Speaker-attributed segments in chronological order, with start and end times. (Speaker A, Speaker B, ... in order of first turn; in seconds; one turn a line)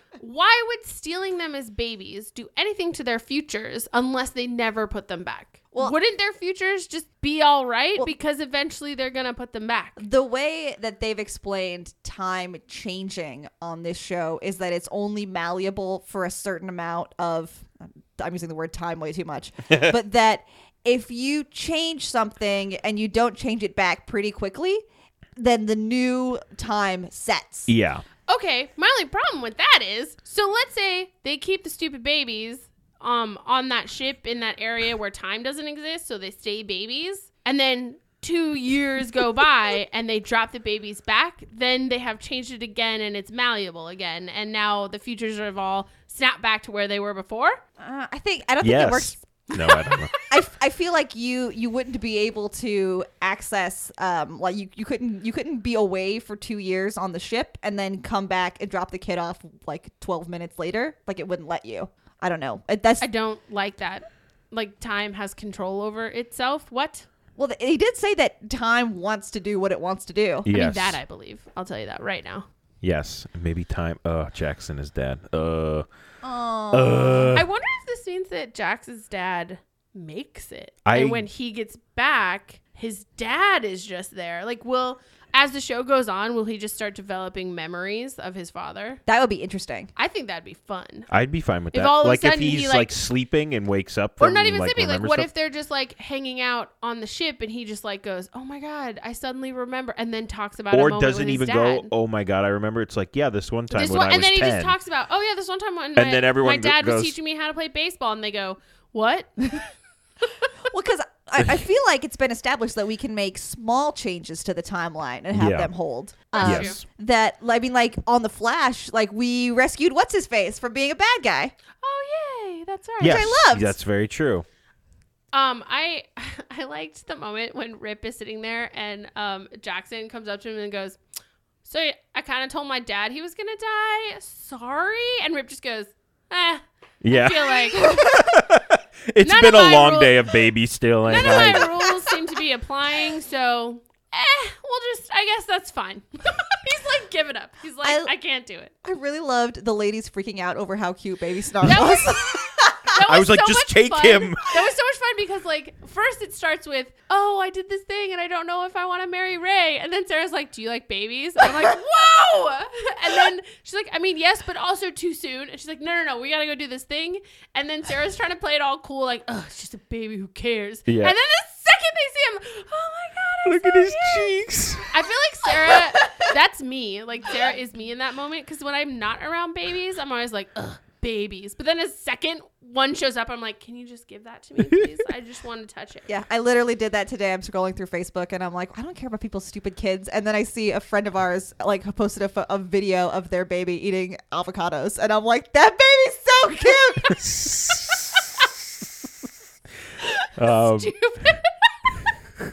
Speaker A: 0.2-10.0
Speaker B: 10.0-24.8
Speaker B: 25.4-27.7
Speaker C: 27.7-28.0
Speaker A: 28.3-47.6
Speaker B: 47.8-63.1
Speaker C: 48.6-50.1
Speaker A: 49.7-50.1
Speaker A: 63.0-67.1
Speaker B: 67.4-70.5
Speaker C: 70.5-71.0
Speaker A: 70.5-72.5
Speaker C: 72.8-75.9
Speaker B: 76.2-77.4
Speaker C: 76.7-77.5
Speaker A: 77.3-89.0
Speaker C: 80.8-81.3
Speaker B: 89.1-89.9
Speaker A: 90.0-91.1
Speaker C: 91.1-95.3
Speaker A: 91.7-92.9
Speaker A: 94.2-101.9
Speaker C: 100.7-104.8
Speaker A: 103.7-109.7
Speaker C: 106.0-107.2
Speaker B: 110.7-121.5
Speaker C: 115.3-115.7
Speaker C: 116.3-116.8
Speaker A: 116.3-116.8
Speaker A: 121.8-123.4
Speaker B: 123.0-123.8
Speaker C: 123.0-124.5
Speaker A: 125.3-131.0
Speaker A: 131.6-138.0
Speaker C: 137.0-141.8
Speaker B: 137.8-138.3
Speaker A: 139.2-140.3
Speaker A: 141.1-148.7
Speaker B: 141.1-141.7
Speaker B: 147.8-148.1
Speaker B: 148.8-153.0
Speaker A: 151.6-174.4
Speaker C: 153.0-154.6
Speaker C: 170.9-171.2
Speaker C: 173.4-174.9
Speaker A: 174.9-186.1
Speaker B: 175.7-176.3
Speaker B: 186.1-197.4
Speaker C: 197.2-197.9
Speaker C: 200.4-201.0
Speaker A: 200.4-201.5